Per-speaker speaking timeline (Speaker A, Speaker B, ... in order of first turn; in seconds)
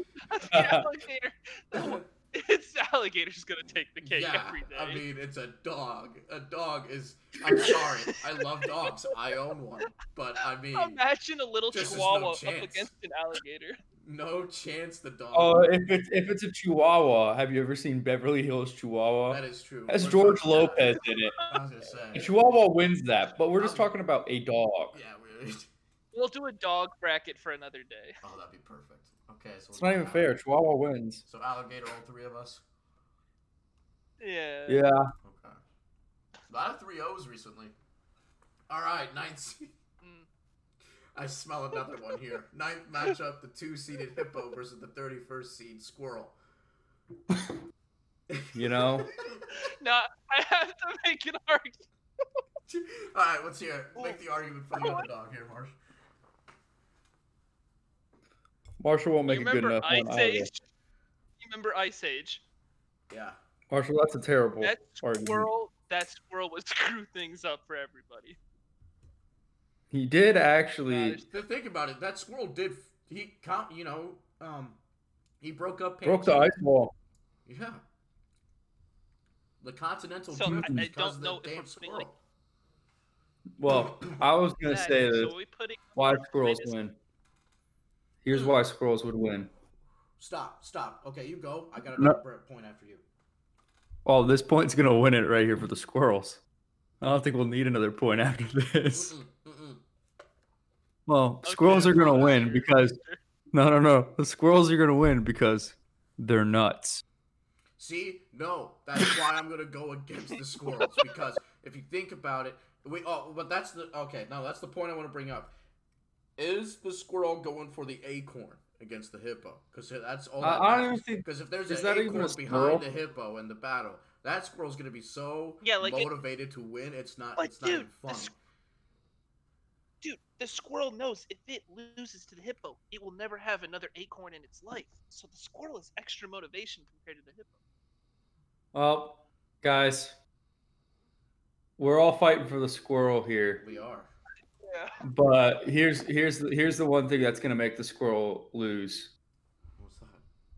Speaker A: 0.2-5.0, 7.5-9.1, 10.7-13.8, 21.3-21.6, 26.1-28.2, 34.2-34.9, 40.0-40.3, 49.5-51.8, 54.7-55.1, 59.3-60.6, 61.4-62.4, 64.6-68.4, 70.8-71.4, 80.3-82.1, 84.6-86.8, 101.4-103.2, 125.6-126.1, 127.4-128.3, 130.0-137.6, 144.6-145.0
Speaker B: 0.5-0.9, 15.3-21.4, 22.1-24.9, 29.7-31.2, 34.7-35.1, 48.5-49.1, 58.8-60.5, 63.7-65.5, 69.9-71.2, 76.0-76.9, 80.5-80.8, 83.6-85.3, 86.0-87.0, 88.2-89.5, 94.0-96.4, 97.0-99.1, 101.1-103.0, 103.5-107.0, 120.4-122.8, 138.7-140.2, 141.8-143.6, 145.0-149.1
Speaker C: 1.7-2.0, 4.0-11.0, 11.7-12.9, 14.0-15.7, 19.3-22.3, 23.6-23.9, 24.9-25.7, 28.2-30.4, 31.2-32.6, 35.2-35.6, 36.5-37.7, 38.7-39.7, 41.1-46.4, 48.3-49.5, 52.7-55.7, 63.1-63.4, 71.3-74.8, 75.4-76.5, 77.5-77.8, 79.6-82.2, 83.7-84.2, 88.3-88.6, 90.2-93.0, 98.9-99.8, 107.8-115.5, 116.4-128.3, 143.6-144.1, 149.8-150.2